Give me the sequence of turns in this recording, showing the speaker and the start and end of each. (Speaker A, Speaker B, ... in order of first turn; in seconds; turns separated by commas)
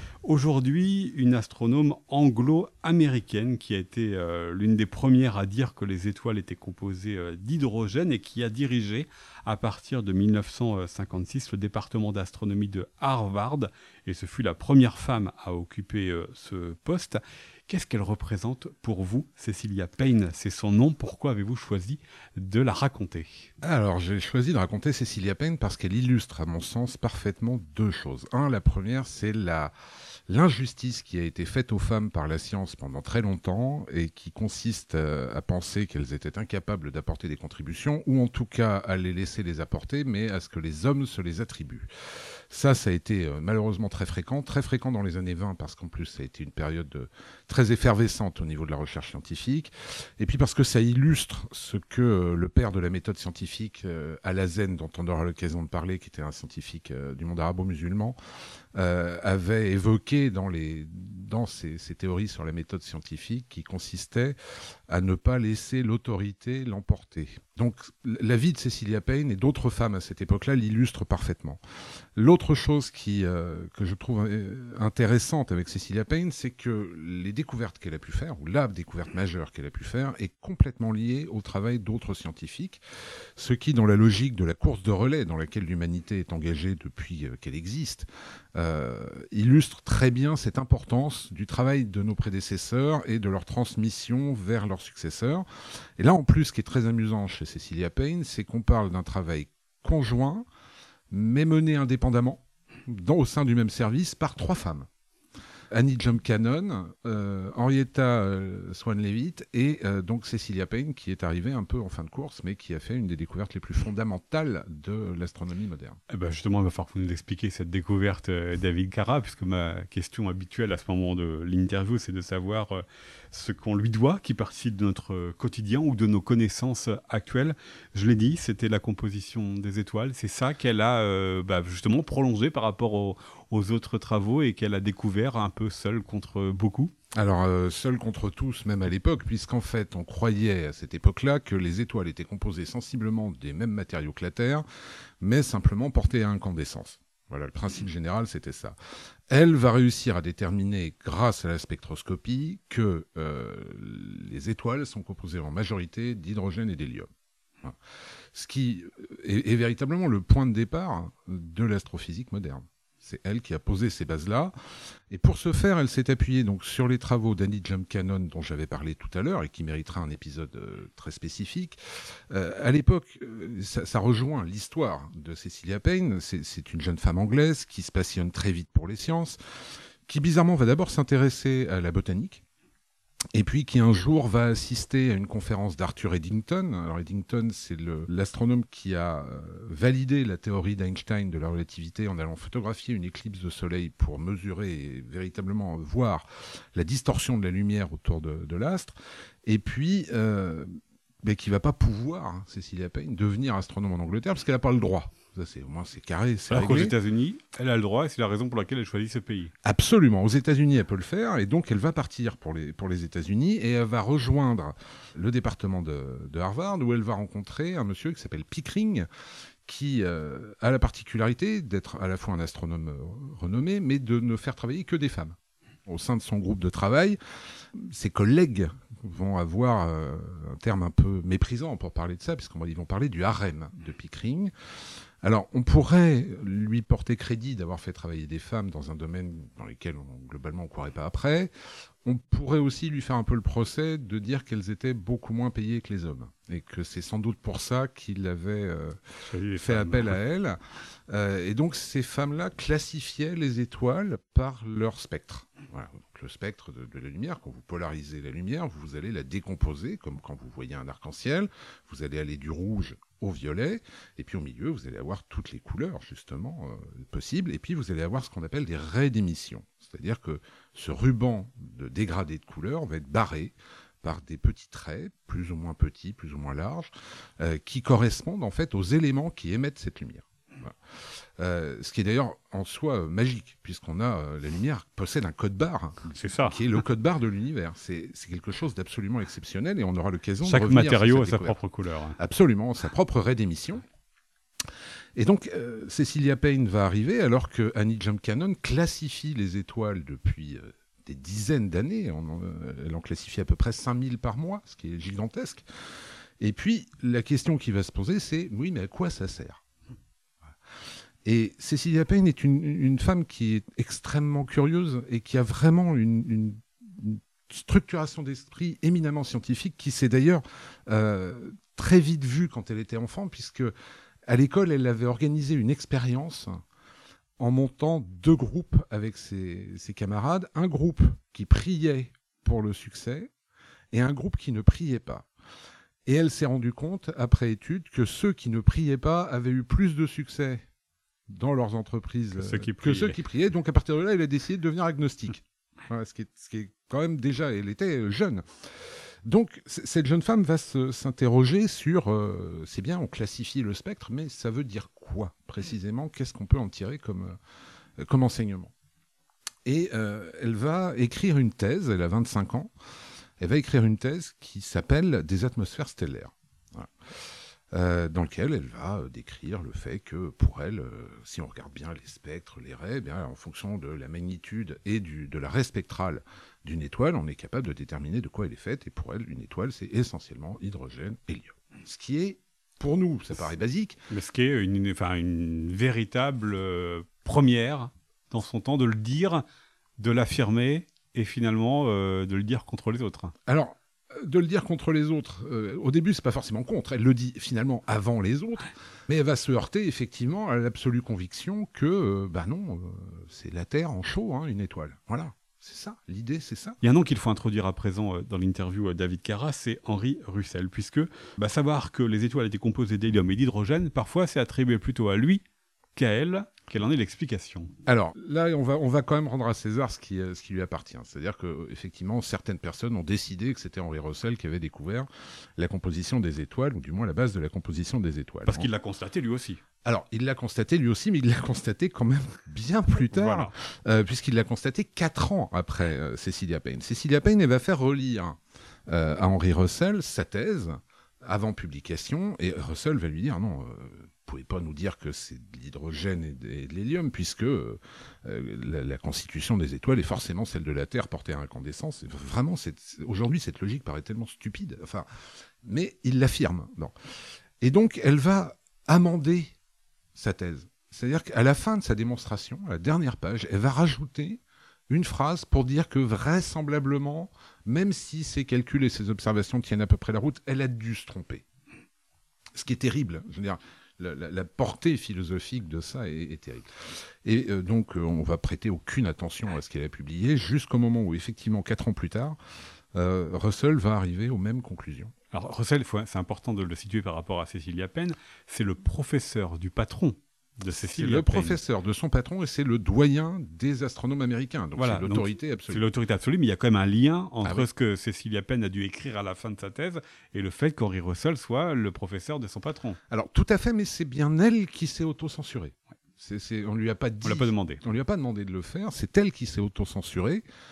Speaker A: 0.2-23.5, Speaker B: 23.6-29.7, Speaker B: 30.3-41.9, Speaker B: 42.5-58.2, Speaker B: 58.7-64.4, Speaker B: 64.9-71.6, Speaker B: 72.2-82.8, Speaker B: 83.3-95.5, Speaker B: 96.0-100.4, Speaker B: 101.1-104.9, Speaker B: 105.7-116.0, Speaker A: 116.1-136.9, Speaker B: 137.1-144.6, Speaker B: 145.2-148.8, Speaker B: 149.3-157.1, Speaker B: 158.3-164.5, Speaker B: 165.1-171.8, Speaker B: 172.3-179.4, Speaker B: 180.1-182.4, Speaker B: 183.3-198.9, Speaker B: 199.4-200.7, Speaker B: 201.2-206.9, Speaker A: 206.5-209.5, Speaker B: 209.6-219.1, Speaker B: 219.7-227.2, Speaker B: 227.7-234.5, Speaker B: 235.2-241.5, Speaker B: 242.0-249.0, Speaker A: 249.2-250.2, Speaker B: 249.5-280.8, Speaker B: 281.4-291.6, Speaker A: 286.1-286.6, Speaker A: 290.4-292.2, Speaker B: 292.2-293.8, Speaker B: 295.2-305.6, Speaker B: 306.4-309.6, Speaker B: 311.2-323.7, Speaker B: 324.3-326.6, Speaker B: 327.4-333.3, Speaker B: 333.9-335.3, Speaker B: 336.1-340.6, Speaker B: 341.3-348.4, Speaker A: 342.3-343.2, Speaker B: 349.2-357.4, Speaker B: 358.0-358.7, Speaker B: 359.6-362.7, Speaker B: 363.4-366.9, Speaker B: 367.7-384.0, Speaker A: 384.1-389.4, Speaker A: 390.0-393.3, Speaker B: 393.5-406.8, Speaker A: 406.8-415.4, Speaker A: 415.9-417.7, Speaker B: 417.9-428.7, Speaker A: 428.4-429.6, Speaker B: 429.8-455.1, Speaker A: 433.1-433.5, Speaker B: 455.6-456.9, Speaker B: 457.6-459.5, Speaker B: 460.1-471.4, Speaker B: 472.5-476.7, Speaker B: 477.2-482.4, Speaker B: 482.9-485.1, Speaker A: 485.3-491.6, Speaker B: 490.7-495.9, Speaker A: 494.7-503.0, Speaker B: 503.1-510.4, Speaker A: 507.2-507.8